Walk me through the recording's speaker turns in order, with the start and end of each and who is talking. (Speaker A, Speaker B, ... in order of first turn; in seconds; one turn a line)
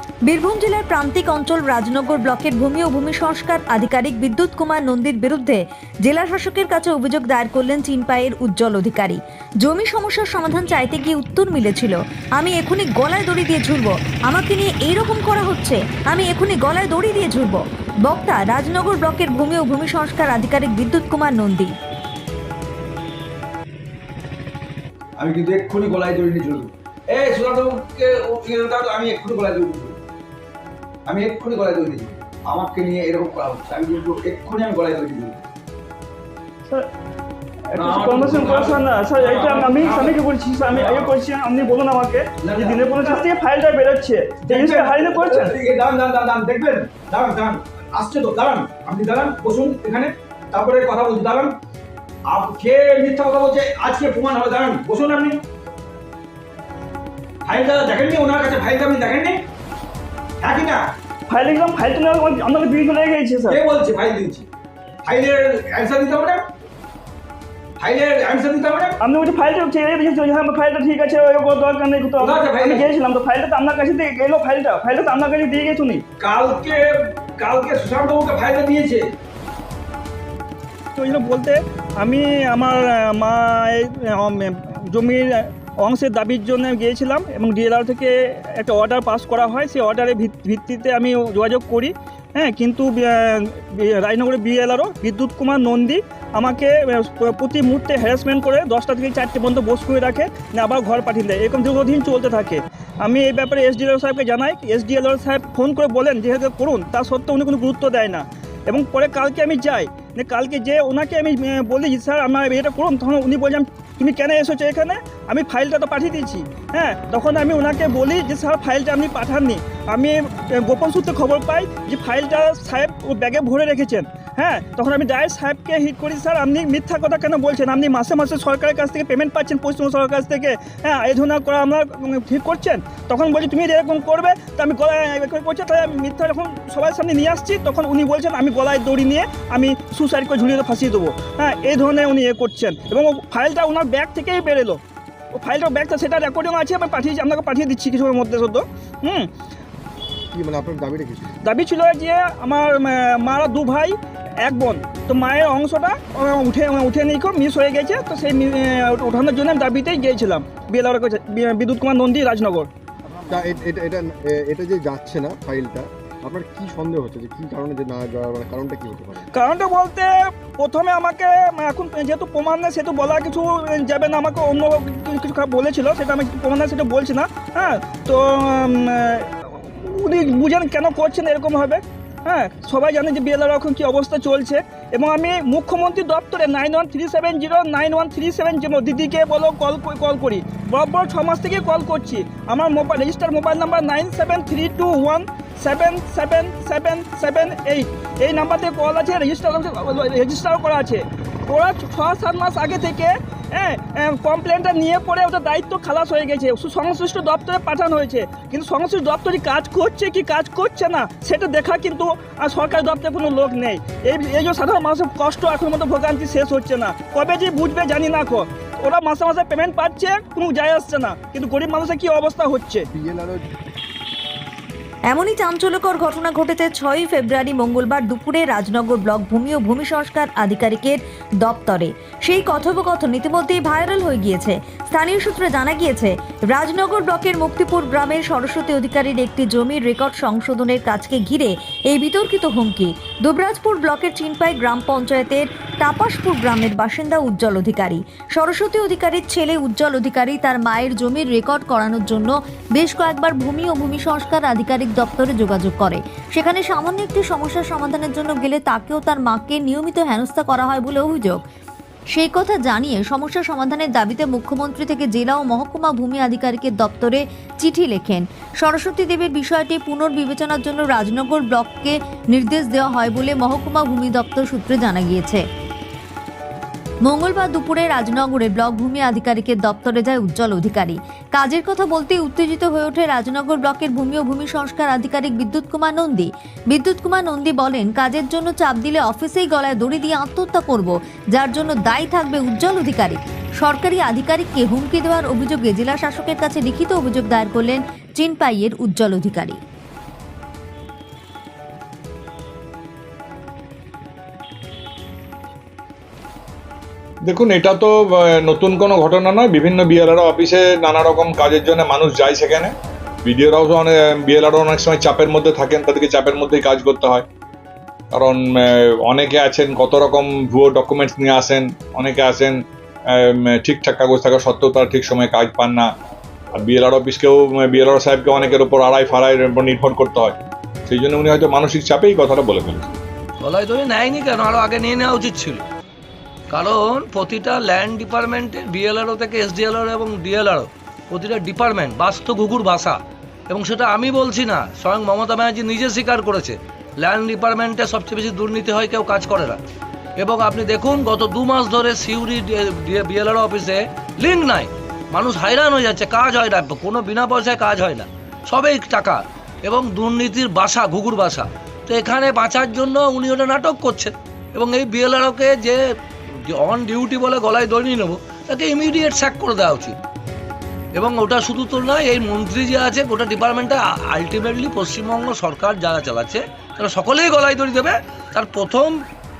Speaker A: 0.3-21.7
Speaker B: 25.2-30.0
Speaker B: 31.1-35.4
Speaker C: 37.7-45.5
Speaker B: 37.8-41.2
Speaker B: 42.4-43.4
Speaker B: 44.4-51.5
Speaker B: 52.3-55.4
Speaker B: 57.5-59.4
Speaker B: 60.4-60.8
Speaker C: 61.3-63.6
Speaker B: 63.5-64.5
Speaker B: 65.0-66.5
Speaker B: 67.8-69.0
Speaker C: 69.0-76.0
Speaker B: 72.2-73.0
Speaker B: 76.2-79.1
Speaker C: 81.0-144.8
Speaker C: 145.3-149.3
Speaker D: 150.3-151.3
Speaker C: 151.4-162.7
Speaker D: 163.2-169.3
Speaker C: 169.3-222.8
Speaker D: 222.9-223.5
Speaker A: 225.1-261.4
Speaker A: 262.1-275.4
Speaker A: 277.1-299.6
Speaker E: 307.3-312.7
Speaker E: 313.2-317.3
Speaker E: 318.1-322.6
Speaker E: 323.1-325.9
Speaker E: 326.6-333.0
Speaker F: 333.4-335.6
Speaker F: 336.5-343.0
Speaker F: 343.5-349.6
Speaker F: 350.2-365.8
Speaker F: 366.5-370.0
Speaker F: 370.9-379.0